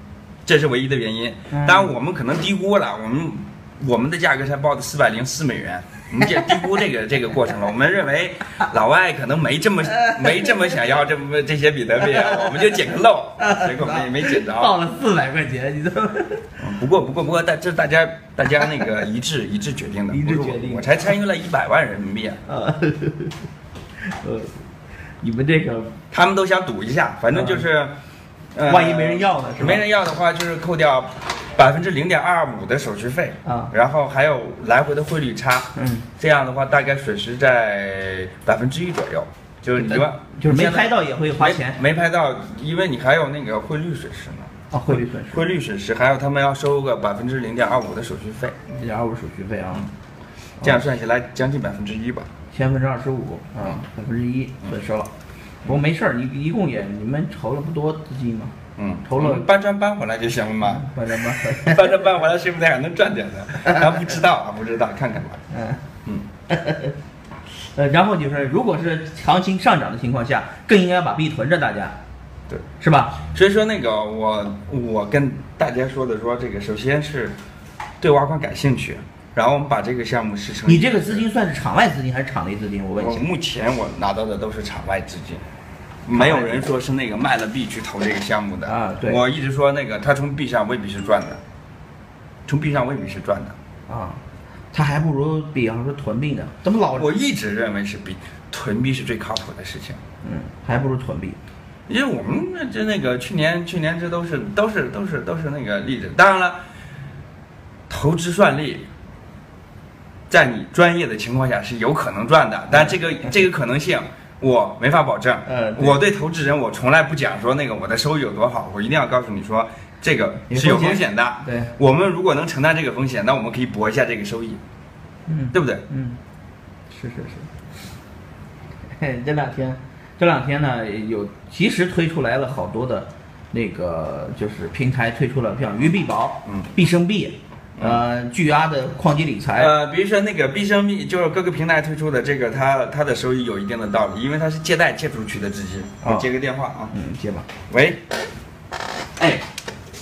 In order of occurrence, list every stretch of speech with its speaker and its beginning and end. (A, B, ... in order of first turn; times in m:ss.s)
0:00.4-0:14.8 A
0:01.5-0:01.9 B
0:12.3-0:16.5 B
0:16.6-0:22.4 A
0:20.1-0:21.0 B
0:22.5-0:23.4 B
0:24.1-0:24.6 B
0:25.2-0:26.0 B
0:26.1-0:28.0 A
0:27.3-0:27.6 B
0:28.6-0:48.6 A
0:28.7-0:29.8 B
0:33.4-0:33.7 B
0:35.8-0:36.1 B
0:39.8-0:41.8 B
0:44.7-0:45.5 B
0:48.7-0:49.9 B
0:50.6-0:52.3 A
0:52.5-0:55.1 B
0:55.6-0:58.5 B
0:58.8-1:05.4 A
0:59.1-0:59.5 B
1:00.6-1:02.0 B
1:05.5-1:05.8 B
1:06.5-1:06.9 B
1:07.8-1:12.0 B
1:12.8-1:13.2 B
1:13.3-1:17.4 A
1:18.0-1:21.2 A
1:20.6-1:23.2 B
1:23.0-1:25.4 A
1:26.1-1:31.4 A
1:26.1-1:26.7 B
1:28.7-1:29.2 B
1:32.5-1:33.6 A
1:33.9-1:34.2 B
1:34.7-1:37.1 B
1:36.9-1:40.0 A
1:40.2-1:41.4 B
1:41.9-1:46.6 A
1:47.9-1:48.9 A
1:50.3-2:04.6 A
1:55.5-1:56.0 B
2:00.5-2:01.7 B
2:05.3-2:06.2 B
2:05.5-2:05.9 A
2:06.9-2:07.5 B
2:09.0-2:19.7 B
2:16.4-2:16.7 A
2:17.8-2:18.0 A
2:19.6-2:26.9 A
2:26.9-2:27.5 B
2:27.7-2:28.0 A
2:29.2-2:29.4 A